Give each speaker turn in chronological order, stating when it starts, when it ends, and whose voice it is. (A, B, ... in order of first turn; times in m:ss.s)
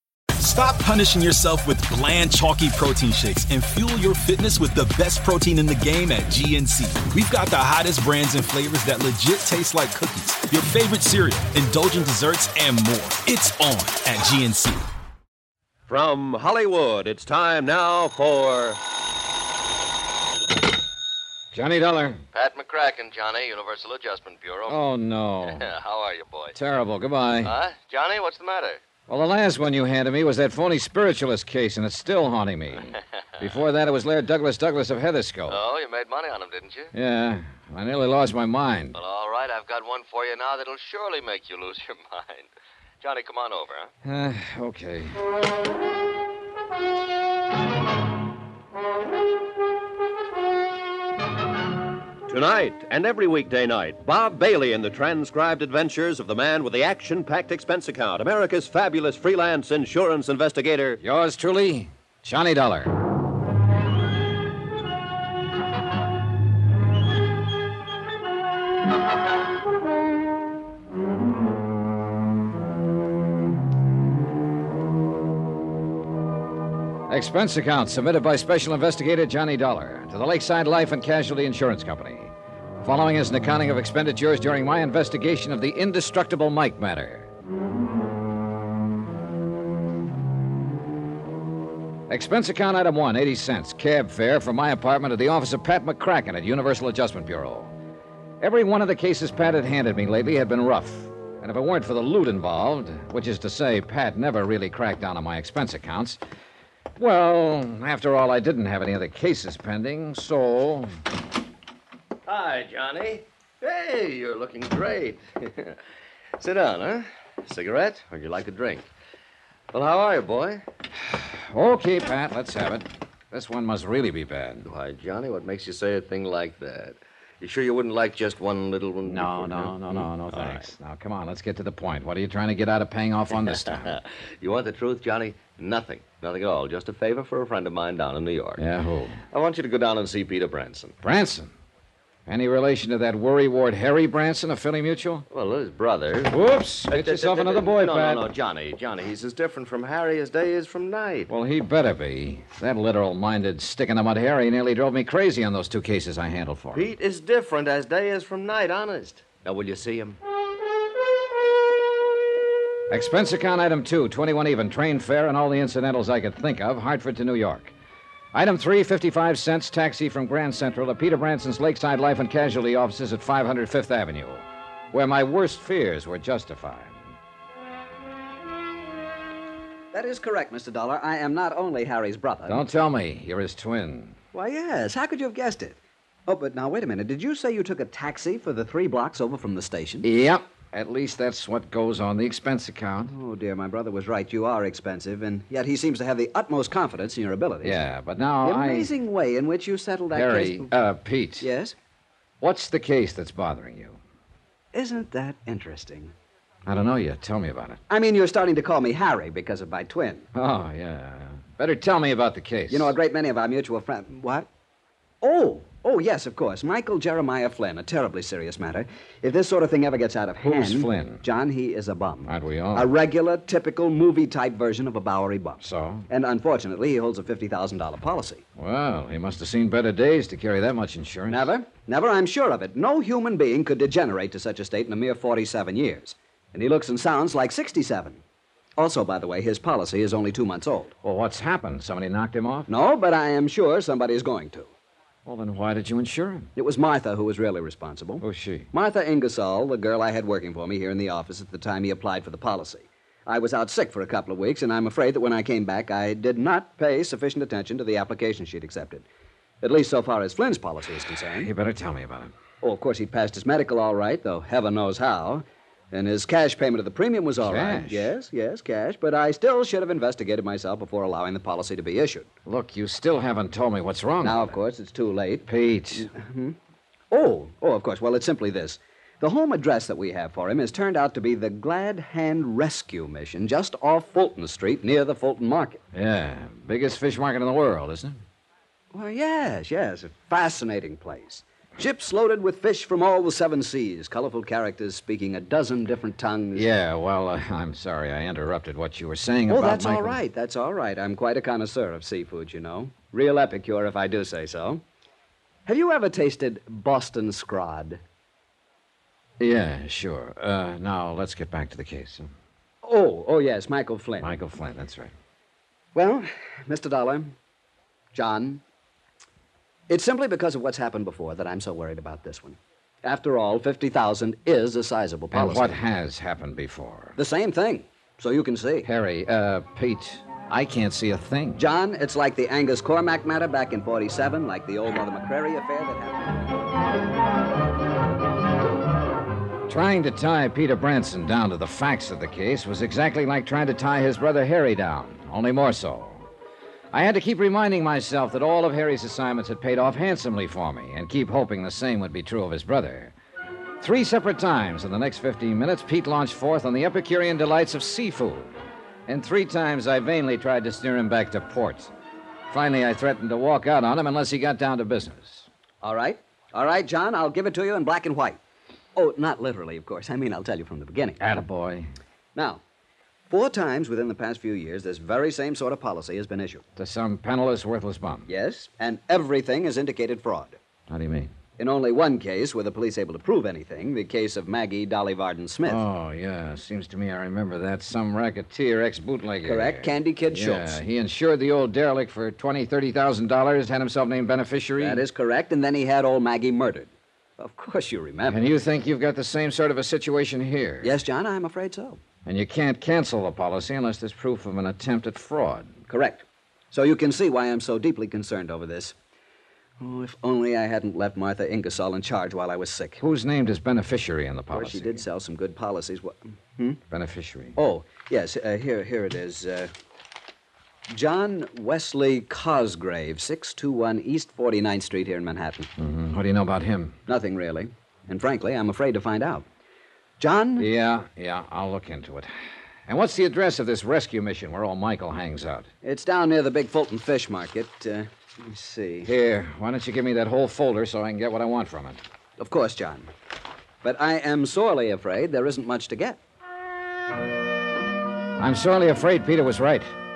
0:00.4-0:14.9 A
0:15.9-0:18.8 B
0:21.5-0:22.2 C
0:22.3-0:24.8 D
0:24.7-0:25.7 C
0:25.5-0:26.6 D
0:26.6-0:27.5 C
0:27.4-0:28.8 D
0:29.1-0:35.6 C
0:35.5-0:36.9 D
0:36.9-0:39.0 C
0:39.0-0:42.5 D
0:43.0-0:43.9 D
0:44.0-0:45.2 C
0:52.3-1:01.0 B
1:01.0-1:02.9 C
1:17.1-1:27.3 C
1:32.1-1:37.7 C
1:38.4-1:46.2 C
1:47.0-1:50.9 C
1:52.3-1:55.8 D
1:56.4-1:58.9 D
1:59.7-2:00.6 D
2:01.1-2:04.7 C
2:04.6-2:10.7 D
2:09.0-2:13.9 C
2:13.8-2:18.6 D
2:18.6-2:19.2 C
2:19.3-2:21.0 D
2:21.0-2:21.5 C
2:22.3-2:25.3 C
2:25.3-2:31.3 D
2:26.3-2:28.3 C
2:31.3-2:36.9 C
2:36.7-2:40.2 D
2:42.9-2:47.7 C
2:48.3-2:57.2 C
2:59.9-3:02.6 E
3:02.5-3:04.2 C
3:04.3-3:10.1 E
3:10.0-3:13.1 C
3:13.1-3:17.8 E
3:17.6-3:18.9 C
3:18.4-3:20.7 E
3:20.1-3:21.5 C
3:21.4-3:21.8 E
3:22.4-3:24.0 C
3:24.7-3:26.1 E
3:26.7-3:27.8 C
3:27.9-3:30.3 E
3:30.3-3:32.9 C
3:32.7-3:34.5 E
3:35.2-3:48.4 E
3:40.4-3:41.2 C
3:42.2-3:42.9 C
3:45.6-3:46.1 C
3:48.6-3:51.5 C
3:51.3-3:58.2 E
3:58.8-4:00.9 E
4:01.0-4:02.7 C
4:02.7-4:04.7 E
4:05.3-4:06.5 C
4:06.6-4:19.1 E
4:08.2-4:08.7 C
4:19.6-4:21.5 E
4:21.4-4:22.3 C
4:22.6-4:32.3 E
4:27.4-4:28.1 C
4:32.5-4:34.6 C
4:34.2-4:36.6 E
4:35.5-4:36.1 C
4:37.1-4:45.8 E
4:45.9-4:48.2 C
4:48.9-4:56.7 E
4:56.6-5:00.2 C
4:59.5-5:04.8 E
5:05.7-5:08.0 E
5:09.4-5:12.3 C
5:12.8-5:14.4 E
5:14.2-5:15.1 C
5:15.9-5:17.4 E
5:18.1-5:18.6 E
5:19.9-5:25.8 E
5:25.3-5:27.2 C
5:27.2-5:28.9 E
5:28.8-5:31.6 C
5:31.6-5:36.4 E
5:39.7-5:46.3 C
5:46.9-5:53.2 C
5:53.8-5:58.6 C
5:59.1-6:01.9 C
6:02.5-6:05.5 C
6:05.8-6:08.4 E
6:09.0-6:11.2 E
6:11.2-6:11.9 C
6:12.4-6:12.6 E
6:13.3-6:16.6 E
6:16.8-6:18.3 C
6:18.3-6:20.6 E
6:20.9-6:21.3 C
6:21.6-6:25.8 E
6:25.6-6:35.0 C
6:29.4-6:30.8 E
6:34.8-6:38.4 E
6:38.3-6:41.0 C
6:40.8-6:42.0 E
6:42.2-6:45.8 C
6:45.9-6:49.0 E
6:49.8-6:53.0 E
6:53.0-6:55.0 C
6:54.5-6:56.8 E
6:56.9-6:57.6 C
6:57.6-6:59.7 E
7:00.9-7:05.7 E
7:05.8-7:07.0 C
7:07.1-7:09.5 E
7:10.2-7:10.7 E
7:10.6-7:12.3 C
7:12.9-7:15.7 C
7:15.8-7:19.1 E
7:19.0-7:22.0 C
7:22.4-7:23.1 E
7:23.8-7:26.2 E
7:28.4-7:29.9 C